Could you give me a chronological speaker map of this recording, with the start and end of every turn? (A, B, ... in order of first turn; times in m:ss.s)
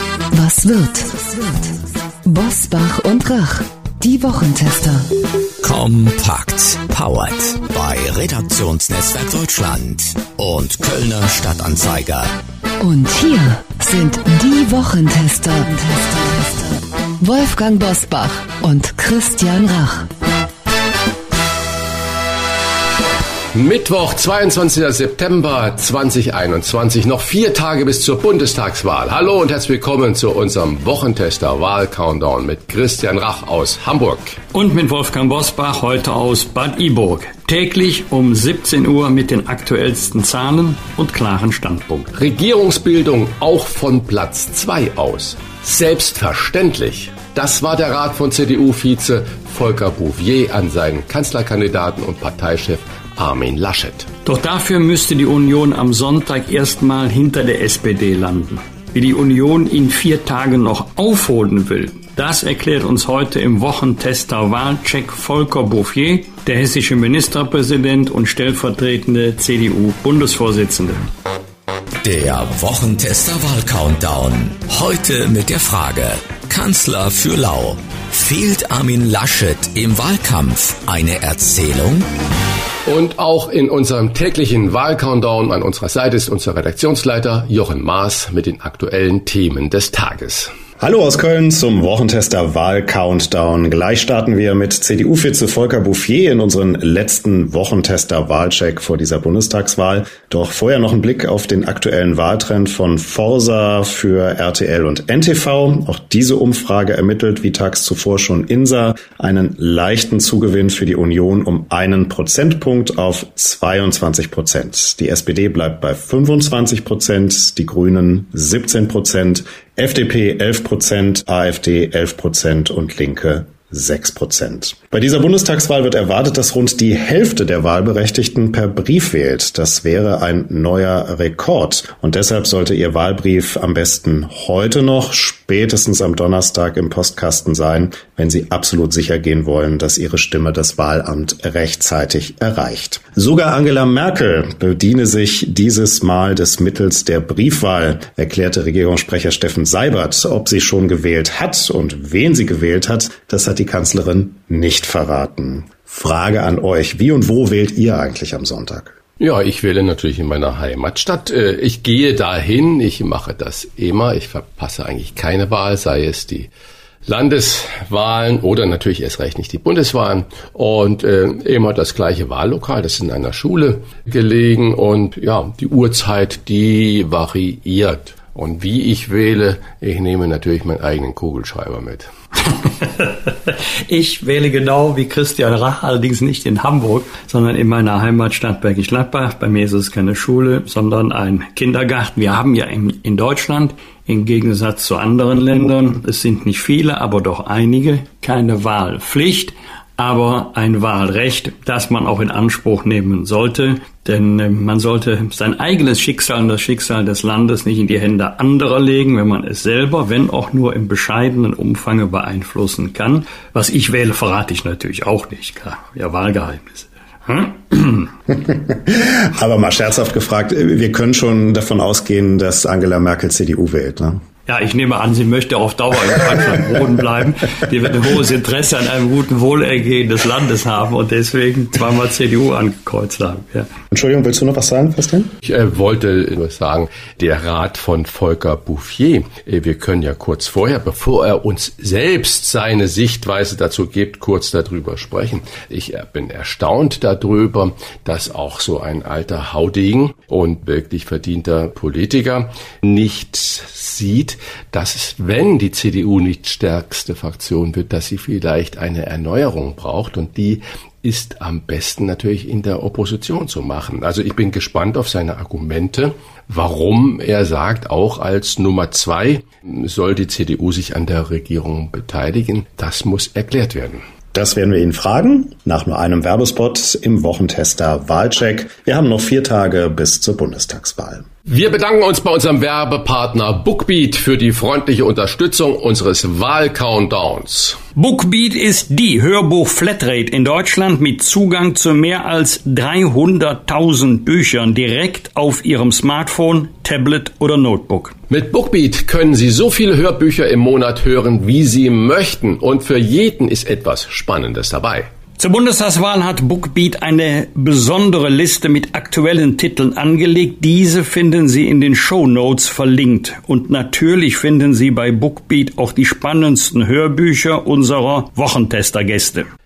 0:00.3-0:05.1 A
0:05.6-0:12.3 B
0:12.8-0:20.1 A
0:23.5-0:34.4 C
0:34.5-0:42.1 D
0:42.1-0:54.1 C
0:54.2-1:11.1 D
1:12.0-1:22.1 B
1:22.9-1:30.5 C
1:30.8-2:39.0 E
2:39.2-2:46.5 C
2:47.1-3:02.1 C
3:02.6-3:38.1 D
3:38.5-3:44.2 E
3:44.5-3:53.7 D
3:53.9-3:55.3 E
3:55.4-4:34.0 C
4:34.3-4:41.3 E
4:41.5-4:47.8 C
4:48.0-4:58.2 D
4:58.3-5:05.1 C
5:05.4-5:19.5 D